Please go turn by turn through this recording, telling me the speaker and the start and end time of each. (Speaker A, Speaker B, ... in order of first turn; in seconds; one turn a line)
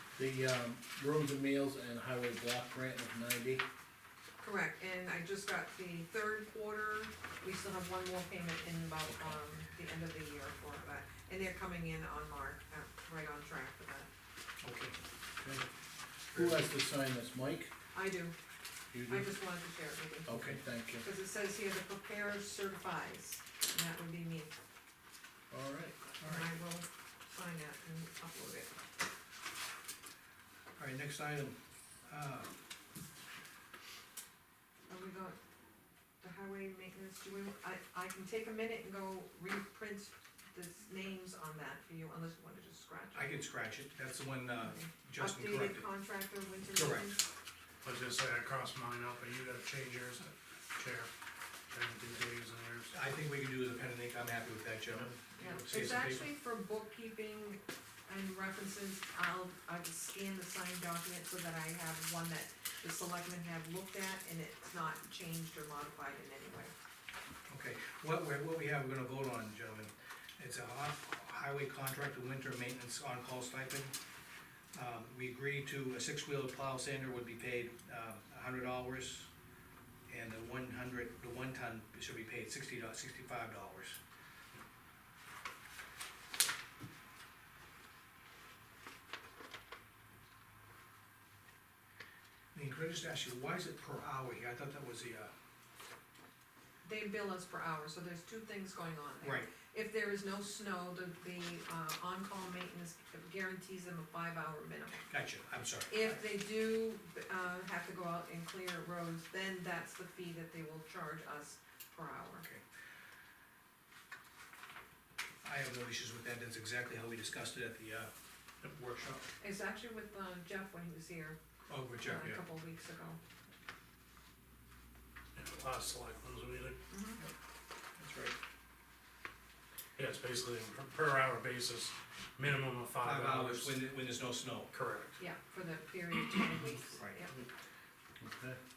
Speaker A: 0.2-3.6
Speaker B: 4.4-14.1
Speaker C: 14.6-14.9
Speaker C: 16.3-16.6
Speaker A: 16.3-17.7
Speaker B: 17.9-18.3
Speaker A: 18.9-19.3
Speaker B: 19.1-20.3
Speaker A: 20.2-21.1
Speaker C: 20.3-20.6
Speaker B: 21.0-24.5
Speaker A: 25.5-26.4
Speaker B: 26.2-28.7
Speaker C: 30.8-32.5
Speaker B: 34.9-35.4
Speaker B: 36.2-43.3
Speaker C: 43.1-45.8
Speaker B: 44.6-47.2
Speaker C: 46.7-47.1
Speaker D: 47.8-51.1
Speaker D: 51.7-52.9
Speaker C: 52.9-56.3
Speaker D: 55.4-56.1
Speaker B: 55.4-66.7
Speaker C: 67.5-73.9
Speaker C: 74.7-79.3
Speaker C: 80.1-84.0
Speaker C: 92.5-95.3
Speaker B: 96.8-105.0
Speaker C: 99.2-99.5
Speaker C: 105.1-106.2
Speaker B: 105.9-112.4
Speaker C: 115.4-118.1
Speaker C: 118.6-119.2
Speaker B: 119.4-121.4
Speaker C: 121.7-122.4
Speaker B: 122.0-123.2
Speaker D: 125.3-126.8
Speaker B: 126.9-127.2
Speaker C: 128.0-128.3
Speaker D: 130.0-133.8
Speaker C: 133.0-134.7
Speaker D: 134.7-135.2
Speaker B: 135.2-137.3
Speaker A: 138.2-138.6